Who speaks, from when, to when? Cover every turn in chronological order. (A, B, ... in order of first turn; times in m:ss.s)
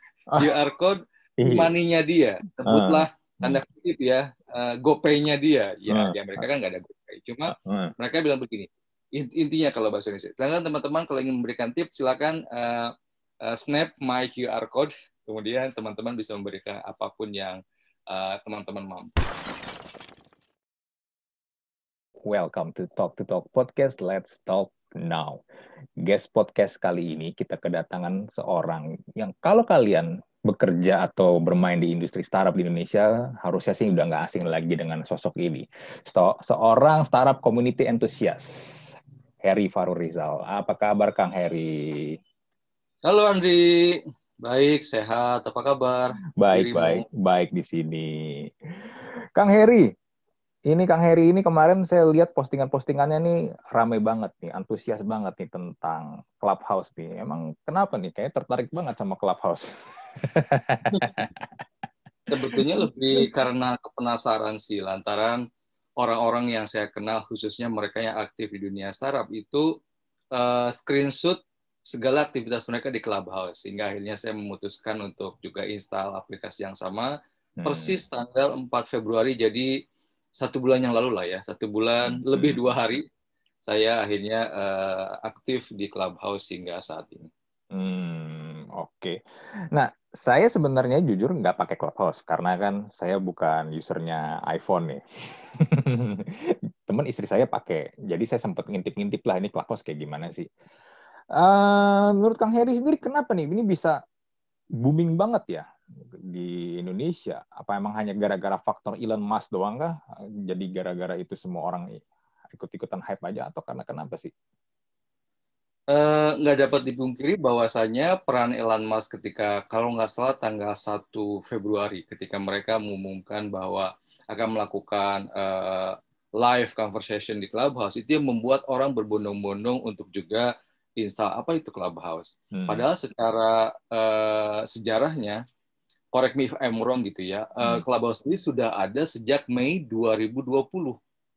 0:00.4-0:12.9 A
0:01.4-0:01.7 B
0:02.7-0:03.6 B
0:05.9-0:06.4 B
0:07.5-0:07.9 B
0:13.4-0:17.6 A
0:18.1-0:19.1 A
0:22.2-0:25.4 B
0:26.0-0:42.2 B
0:43.0-0:47.0 A
0:46.4-0:49.9 B
0:50.7-1:01.2 B
1:00.9-1:01.2 A
1:02.3-1:05.4 A
1:02.5-1:03.3 B
1:06.0-1:09.7 A
1:10.3-1:11.4 A
1:11.9-1:17.1 A
1:17.6-1:18.0 B
1:17.6-1:19.7 A
1:20.4-1:23.0 A
1:22.1-1:22.6 B
1:23.7-1:27.3 A
1:27.7-1:29.2 B
1:29.7-1:40.5 B
1:41.4-1:44.0 B
1:44.8-1:50.0 B
1:50.5-1:52.0 B
1:52.5-1:54.3 B
1:55.9-2:10.5 A
2:11.0-2:15.4 A
2:12.5-2:12.8 B
2:16.1-2:21.0 A